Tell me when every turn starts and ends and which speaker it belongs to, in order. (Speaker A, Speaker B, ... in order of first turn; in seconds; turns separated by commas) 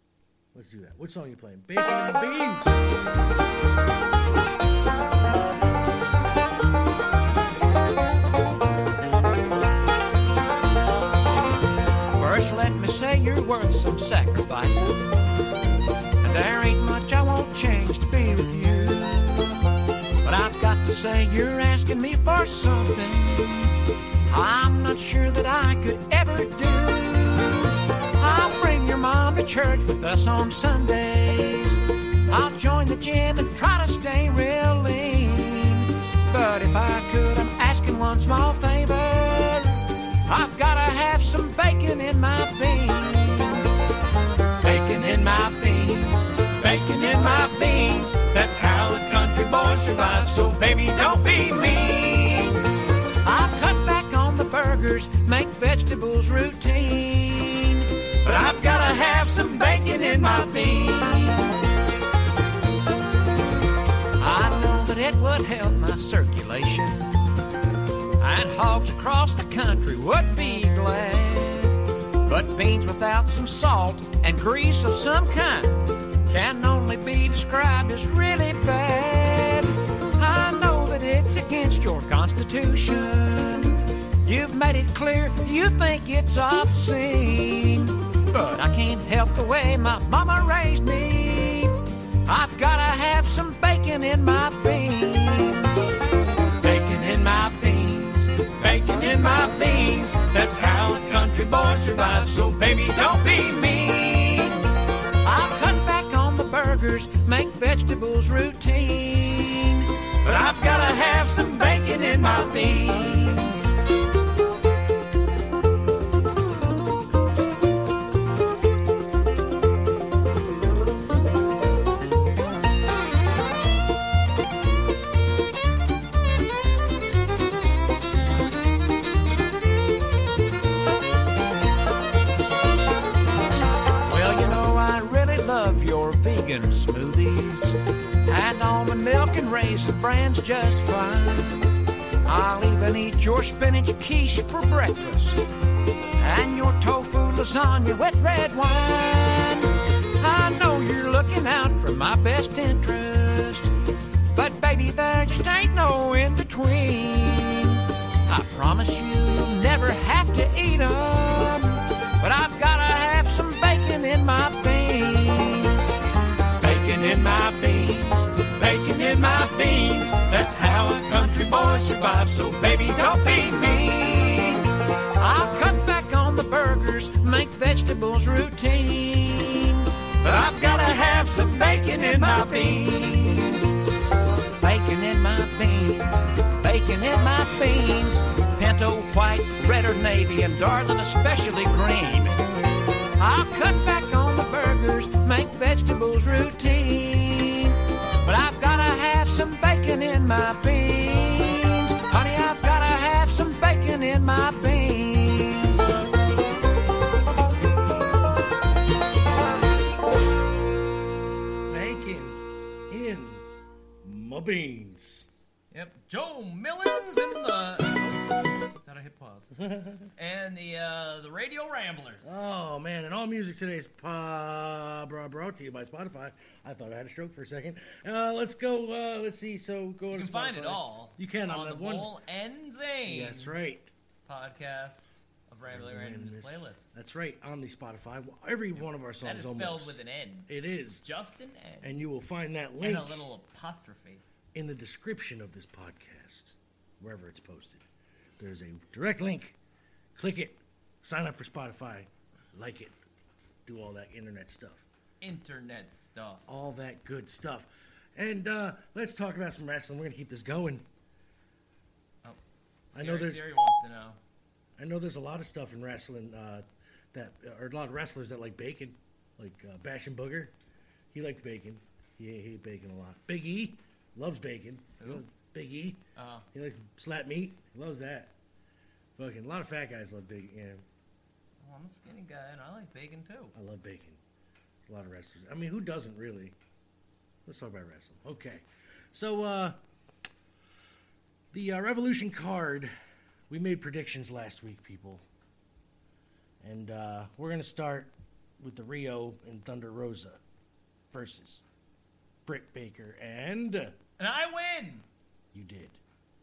Speaker A: 0.5-2.8, Speaker B: 12.2-15.0, Speaker B: 16.2-19.6, Speaker B: 20.2-23.7, Speaker B: 24.3-43.7, Speaker B: 44.6-52.6, Speaker B: 53.2-61.7, Speaker B: 64.2-67.1, Speaker B: 68.2-91.7, Speaker B: 92.2-95.8, Speaker B: 96.6-104.6, Speaker B: 105.2-113.7, Speaker B: 134.1-141.7, Speaker B: 142.2-145.4, Speaker B: 146.2-153.7, Speaker B: 154.3-165.9, Speaker B: 166.6-174.6, Speaker B: 175.2-183.7, Speaker B: 184.6-192.4, Speaker B: 193.2-205.9, Speaker A: 211.7-213.4, Speaker A: 214.0-215.3, Speaker C: 215.7-219.5, Speaker A: 219.6-220.1, Speaker C: 220.1-222.4, Speaker A: 222.2-232.1, Speaker C: 230.1-233.6, Speaker A: 233.1-233.9, Speaker C: 234.2-236.9, Speaker A: 235.7-241.0, Speaker C: 238.8-240.5, Speaker C: 241.0-242.0, Speaker A: 241.8-243.2, Speaker C: 242.8-244.2, Speaker A: 244.5-247.8, Speaker A: 248.4-249.6, Speaker A: 250.1-252.9, Speaker A: 253.7-254.8, Speaker C: 255.2-256.4, Speaker A: 256.5-260.8, Speaker C: 262.9-264.2, Speaker A: 262.9-263.5, Speaker A: 264.8-270.5, Speaker A: 271.1-276.0, Speaker C: 275.0-275.2, Speaker C: 276.1-276.5, Speaker A: 276.5-278.3, Speaker A: 279.1-280.8, Speaker C: 281.6-283.5, Speaker A: 283.5-284.2, Speaker A: 284.9-286.6, Speaker A: 287.4-289.8, Speaker A: 291.5-292.9, Speaker A: 293.5-295.2, Speaker A: 296.6-300.4, Speaker A: 301.1-301.6, Speaker A: 302.4-303.9, Speaker C: 304.2-305.0, Speaker A: 305.5-306.0